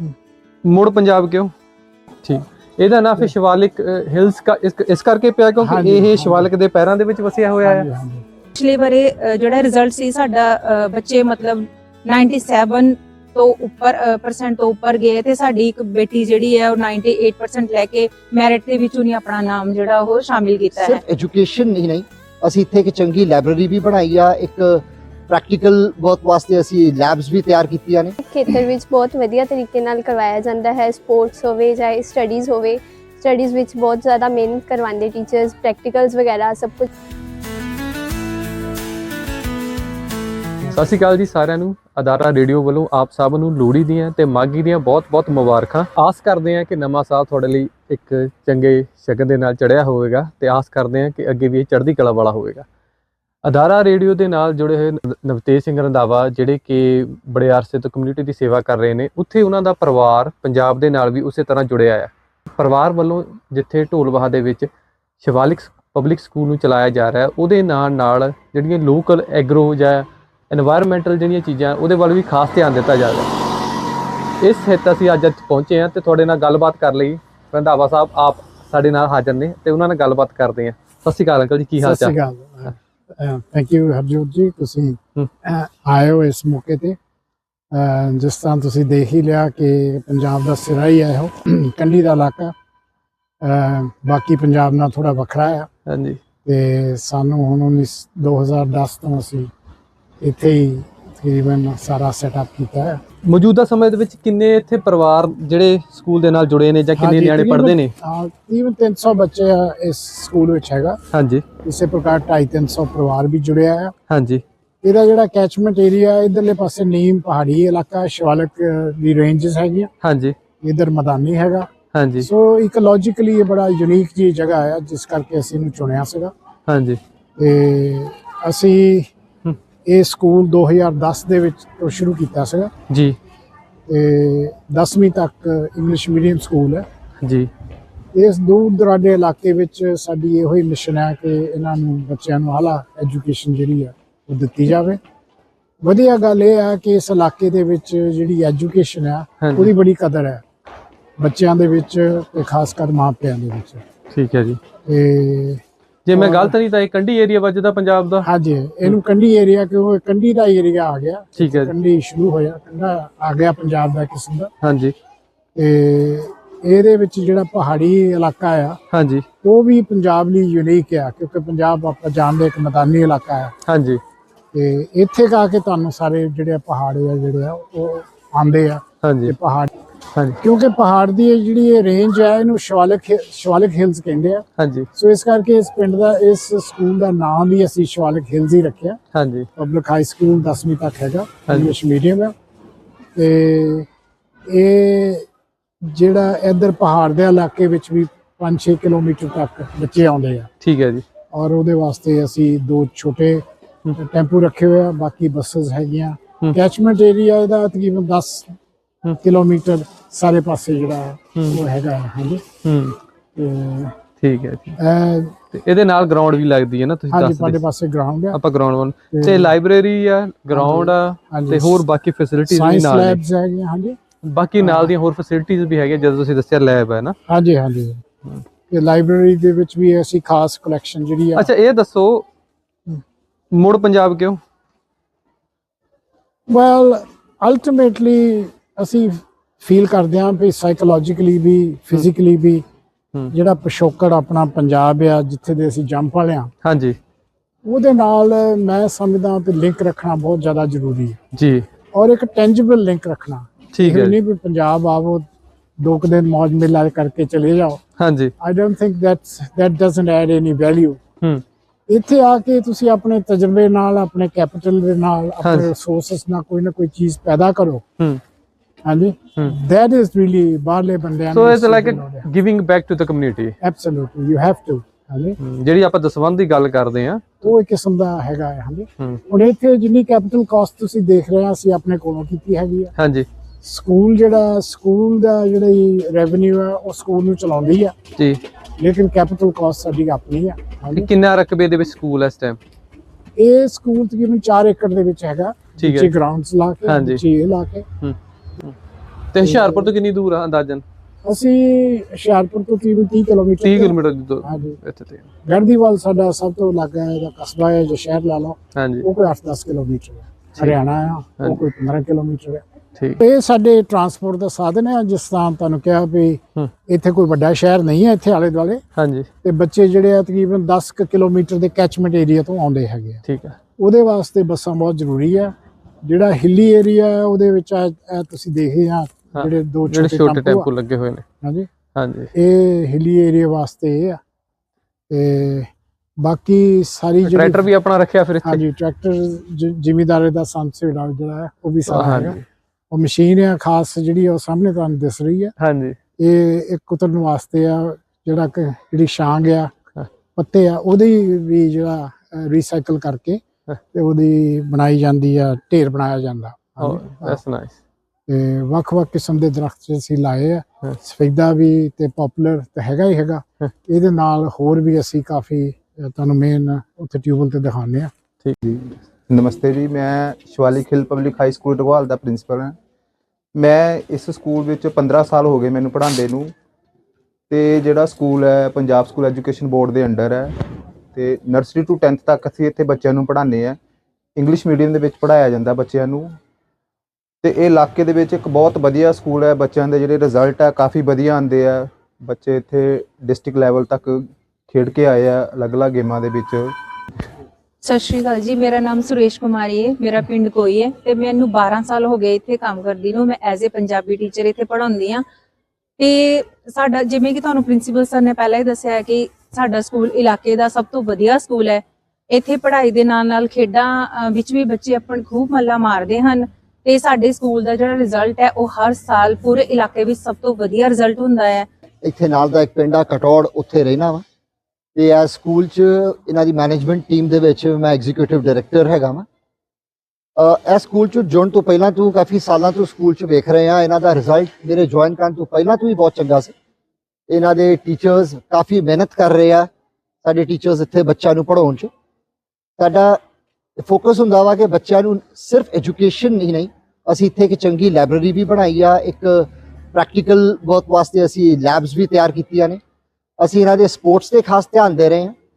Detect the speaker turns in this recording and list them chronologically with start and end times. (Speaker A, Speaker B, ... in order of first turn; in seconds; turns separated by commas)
Speaker A: 0.7-1.5, Speaker A: 2.2-7.8, Speaker B: 5.6-6.5, Speaker B: 7.6-8.2, Speaker C: 8.5-21.0, Speaker D: 20.7-28.2, Speaker E: 28.2-36.9, Speaker A: 40.7-52.6, Speaker A: 53.4-64.7, Speaker A: 65.2-73.3, Speaker A: 74.4-82.1, Speaker B: 81.8-87.0, Speaker B: 87.7-92.5, Speaker B: 93.4-95.7, Speaker A: 95.9-96.2, Speaker B: 96.4-99.5, Speaker B: 100.2-103.0, Speaker A: 103.3-107.9, Speaker B: 107.0-111.0, Speaker A: 111.1-111.4, Speaker B: 111.6-113.9, Speaker A: 114.1-114.4, Speaker B: 114.8-119.9, Speaker A: 120.0-120.3, Speaker B: 120.6-121.7, Speaker A: 121.9-122.3, Speaker B: 122.2-126.3, Speaker A: 126.7-127.0, Speaker B: 127.4-129.1, Speaker B: 129.8-132.7, Speaker A: 132.9-133.2, Speaker B: 133.9-136.8, Speaker A: 137.2-137.5, Speaker B: 138.1-145.0, Speaker B: 145.8-150.4, Speaker A: 149.4-149.7, Speaker B: 151.2-153.8, Speaker A: 154.1-154.6, Speaker B: 154.8-155.6, Speaker A: 156.1-158.2, Speaker B: 156.1-156.5, Speaker B: 158.2-164.5, Speaker A: 161.4-161.7, Speaker A: 164.6-164.9, Speaker B: 165.5-168.8, Speaker A: 168.9-169.2, Speaker B: 169.4-173.5, Speaker A: 173.7-174.0, Speaker B: 174.5-179.7, Speaker A: 179.0-179.3, Speaker B: 180.4-189.0, Speaker A: 184.6-184.9, Speaker A: 189.1-189.5, Speaker B: 189.6-192.3, Speaker A: 191.5-191.7, Speaker B: 193.2-193.9, Speaker B: 194.5-195.2, Speaker B: 195.8-200.5, Speaker A: 200.6-201.0, Speaker B: 201.3-203.4, Speaker B: 203.9-208.5, Speaker B: 209.2-212.4, Speaker A: 212.6-212.9, Speaker B: 213.3-213.9, Speaker A: 214.2-214.8, Speaker B: 214.8-215.3, Speaker A: 215.5-217.6, Speaker B: 217.1-218.4, Speaker A: 218.3-223.2, Speaker B: 219.1-219.5, Speaker B: 220.5-221.8, Speaker B: 222.5-224.0, Speaker A: 224.2-227.1, Speaker B: 224.6-224.9, Speaker B: 227.3-228.0, Speaker B: 228.7-231.5, Speaker A: 231.3-232.2, Speaker A: 233.5-234.4, Speaker B: 236.5-242.6, Speaker B: 243.3-246.5, Speaker A: 246.6-247.0, Speaker B: 247.6-251.2, Speaker A: 251.3-251.7, Speaker B: 251.9-255.2, Speaker A: 253.7-254.2, Speaker B: 255.8-257.8, Speaker A: 258.0-258.3, Speaker B: 258.4-261.0, Speaker B: 261.9-267.8, Speaker A: 265.4-265.7, Speaker B: 268.8-272.3, Speaker A: 271.3-273.5, Speaker B: 273.6-275.4, Speaker A: 275.4-277.5, Speaker B: 277.4-282.9, Speaker A: 282.9-283.2, Speaker B: 283.6-287.9, Speaker B: 288.8-291.1, Speaker A: 290.9-292.6, Speaker B: 293.4-297.9, Speaker A: 295.8-296.1, Speaker A: 296.8-297.2, Speaker A: 298.0-298.7, Speaker A: 299.3-300.8, Speaker B: 299.4-299.9, Speaker B: 301.2-304.8, Speaker A: 303.6-305.2, Speaker B: 305.4-312.6, Speaker A: 308.7-309.1, Speaker B: 313.2-318.8, Speaker A: 318.9-319.3, Speaker B: 319.4-323.2, Speaker A: 323.2-323.6, Speaker B: 323.8-330.7, Speaker A: 329.4-331.2, Speaker B: 331.4-331.7, Speaker A: 331.9-332.3, Speaker B: 332.3-334.2, Speaker B: 335.1-335.7, Speaker B: 336.2-337.6, Speaker A: 337.3-338.6, Speaker B: 338.4-342.4, Speaker A: 341.9-342.4, Speaker B: 342.9-345.5, Speaker A: 345.6-346.0, Speaker B: 346.2-349.7, Speaker B: 350.4-353.4, Speaker B: 353.9-357.4, Speaker A: 356.8-357.8, Speaker B: 358.3-368.1, Speaker F: 368.6-372.8, Speaker F: 373.5-376.5, Speaker F: 377.5-380.6, Speaker F: 381.1-383.8, Speaker F: 384.4-386.4, Speaker F: 387.4-396.7, Speaker C: 397.8-405.2, Speaker C: 406.0-421.7, Speaker D: 422.0-424.2, Speaker D: 424.9-429.2, Speaker D: 430.4-436.5, Speaker D: 437.3-439.7, Speaker D: 440.2-441.9, Speaker D: 442.8-443.2, Speaker D: 443.8-452.8, Speaker D: 453.4-455.3